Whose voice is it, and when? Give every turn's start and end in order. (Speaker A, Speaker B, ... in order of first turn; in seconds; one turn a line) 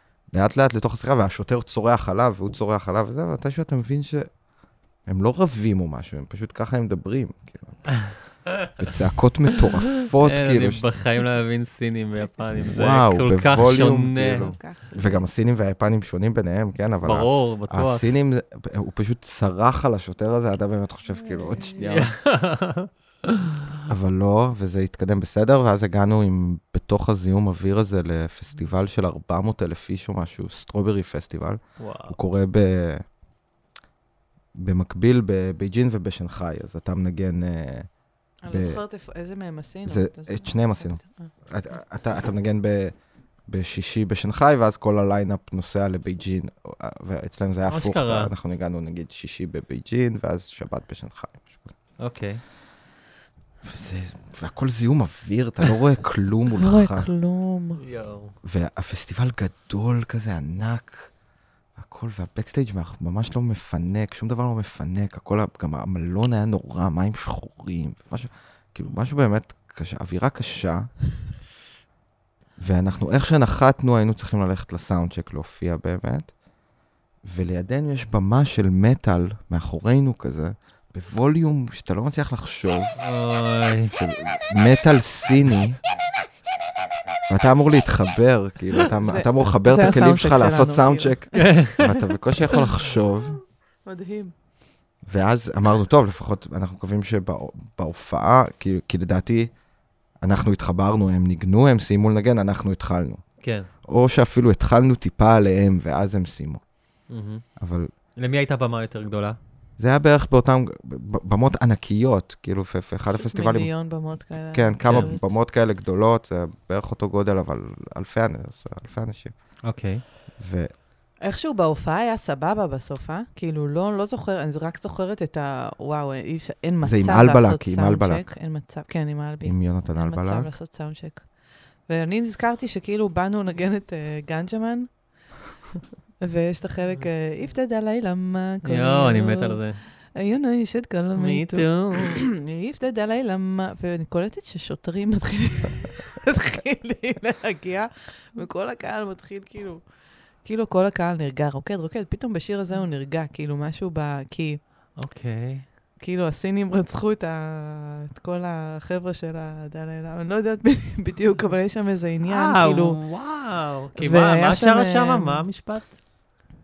Speaker A: 0.3-4.3
Speaker A: 5.1-10.9
Speaker B: 10.1-14.5
Speaker A: 12.7-22.1
Speaker C: 14.3-15.2
Speaker B: 17.0-18.1
Speaker B: 21.8-22.9
Speaker A: 23.9-33.0
Speaker B: 31.8-32.2
Speaker A: 34.5-37.9
Speaker C: 38.4-41.3
Speaker A: 38.5-38.8
Speaker A: 39.9-43.0
Speaker A: 43.5-51.7
Speaker B: 47.7-48.3
Speaker B: 52.0-52.4
Speaker A: 53.6-57.1
Speaker C: 56.6-57.8
Speaker B: 57.8-58.3
Speaker A: 58.4-61.1
Speaker A: 61.8-71.0
Speaker A: 72.6-76.3
Speaker A: 77.2-83.0
Speaker B: 83.0-83.9
Speaker A: 83.9-85.8
Speaker A: 87.3-93.4
Speaker C: 89.0-91.6
Speaker B: 91.4-91.9
Speaker C: 93.8-94.3
Speaker A: 95.1-99.5
Speaker A: 100.2-103.2
Speaker B: 103.4-103.7
Speaker A: 103.9-106.6
Speaker B: 107.1-107.4
Speaker A: 107.6-107.9
Speaker B: 108.2-109.4
Speaker A: 109.8-113.9
Speaker C: 113.2-115.3
Speaker A: 114.5-119.3
Speaker B: 119.7-120.0
Speaker A: 120.4-120.7
Speaker C: 121.2-131.3
Speaker A: 126.8-128.3
Speaker A: 129.4-130.5
Speaker C: 131.9-134.9
Speaker C: 136.2-149.8
Speaker B: 138.7-139.8
Speaker B: 141.2-142.2
Speaker C: 150.4-154.6
Speaker B: 155.0-155.7
Speaker C: 156.0-163.0
Speaker B: 162.3-165.9
Speaker C: 164.0-165.4